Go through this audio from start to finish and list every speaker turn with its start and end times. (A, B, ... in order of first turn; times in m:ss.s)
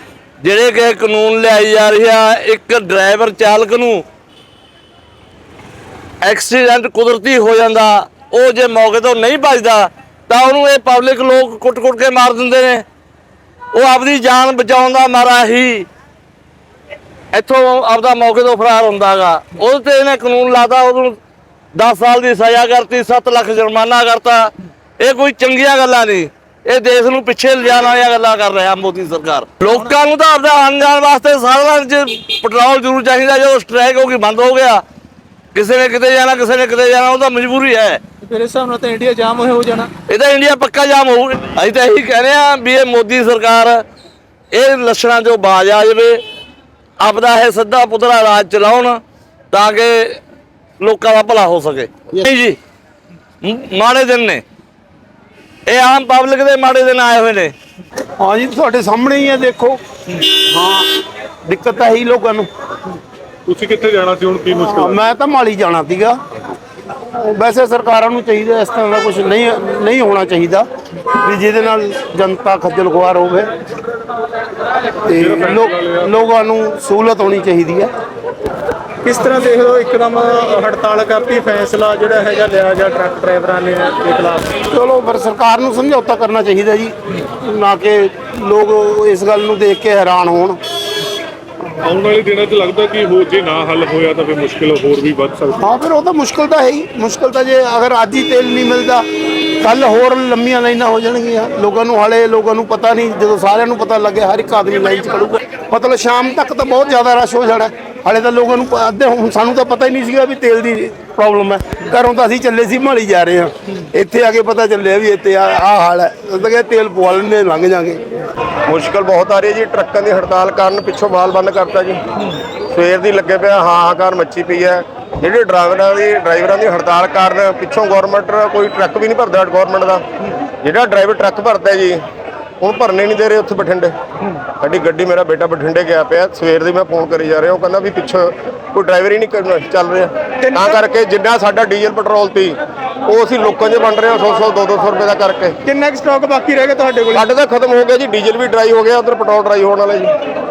0:00.4-0:04.0 A
0:06.2-0:12.8 A
0:13.7-0:15.9 A
0:17.3-0:21.2 A
0:21.7-0:34.8 A
0:35.5-0:38.0 A
0:38.2-0:39.9 B
0:40.1-0:43.8 A
0:44.5-0:46.2 A
0:47.0-0:49.0 A
0:49.5-0:50.2 A
0:50.8-0:52.6 A
0:53.4-0:54.4 A
0:55.7-0:57.5 A
0:58.2-1:00.9 C
1:01.4-1:02.5 C
1:03.5-1:05.1 D
1:04.6-1:06.2 C
1:07.2-1:10.7 C
1:11.2-1:13.5 C
1:15.0-1:17.9 C
1:15.1-1:16.3 D
1:19.0-1:24.5 B
1:24.7-1:30.6 C
1:31.8-1:35.7 D
1:35.6-1:39.0 C
1:39.6-1:58.0 C
1:58.7-2:02.0 E
2:02.7-2:10.0 E
2:10.6-2:12.0 E
2:12.6-2:13.9 E
2:14.6-2:25.6 E
2:25.9-2:27.0 B
2:27.1-2:30.1 E